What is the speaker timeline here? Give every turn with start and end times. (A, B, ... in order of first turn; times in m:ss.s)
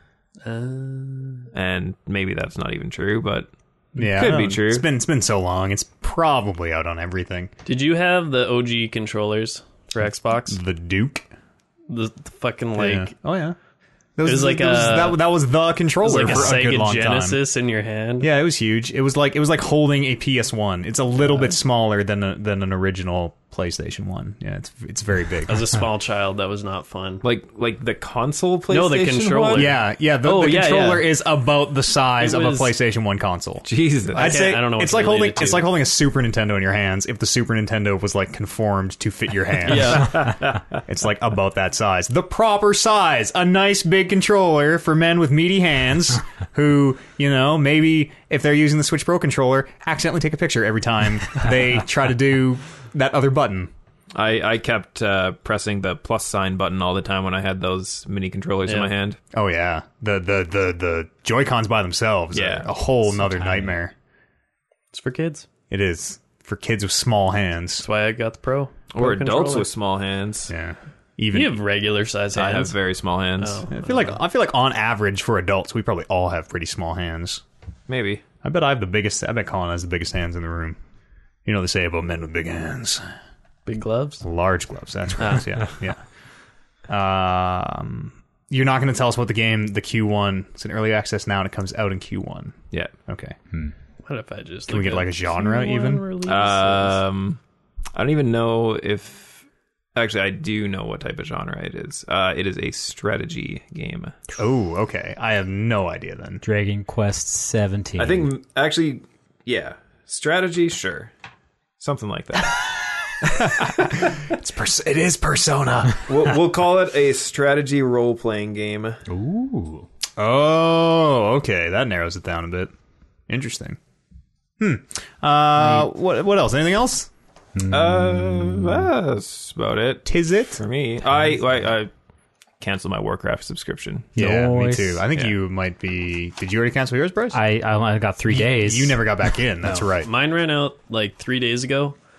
0:00.4-0:01.5 A
0:01.5-0:04.9 B
0:04.0-0:07.5 C
0:07.6-0:10.6 A
0:10.5-0:11.3 C
0:11.9-0:13.1 A
0:12.8-0:13.6 C
0:14.2-0:17.4 C
0:14.2-0:15.2 A
0:16.0-0:18.3 A
0:18.2-0:25.6 C
0:25.5-0:27.2 A
0:27.2-0:29.7 B
0:28.7-0:31.1 A
0:29.5-0:53.7 C
0:32.2-0:32.7 A
0:33.6-0:34.4 B
0:34.1-0:35.7 A
0:39.6-0:40.4 A
0:39.9-0:40.6 B
0:54.1-0:59.2 B
0:58.6-0:58.9 A
0:59.3-1:03.9 C
1:02.3-1:02.7 B
1:03.0-1:03.8 D
1:04.9-1:05.5 A
1:05.7-1:07.9 C
1:07.8-1:09.7 A
1:08.9-1:10.5 B
1:10.5-1:11.6 C
1:11.3-1:12.8 A
1:12.3-1:13.6 B
1:13.4-1:14.2 A
1:13.7-1:17.4 C
1:17.9-1:18.2 B
1:18.4-1:20.8 C
1:21.4-1:23.0 C
1:23.6-1:24.2 A
1:24.2-1:26.0 C
1:25.2-1:25.5 A
1:26.9-1:33.4 C
1:34.0-1:37.0 A
1:34.7-1:36.0 C
1:36.2-1:37.4 B
1:37.9-1:44.2 B
1:44.4-1:46.4 C
1:46.4-1:48.3 D
1:48.0-1:51.1 B
1:51.8-1:54.1 B
1:53.4-1:56.1 C
1:56.1-1:59.0 B
1:59.1-1:59.9 D
2:00.2-2:02.7 C
2:03.3-2:03.8 C
2:04.6-2:07.1 C
2:07.6-2:08.8 D
2:07.7-2:11.9 B
2:10.0-2:10.6 C
2:12.6-2:14.1 B
2:14.2-2:17.4 C
2:14.2-2:15.0 D
2:17.3-2:19.0 D
2:18.3-2:20.1 C
2:20.0-2:22.0 A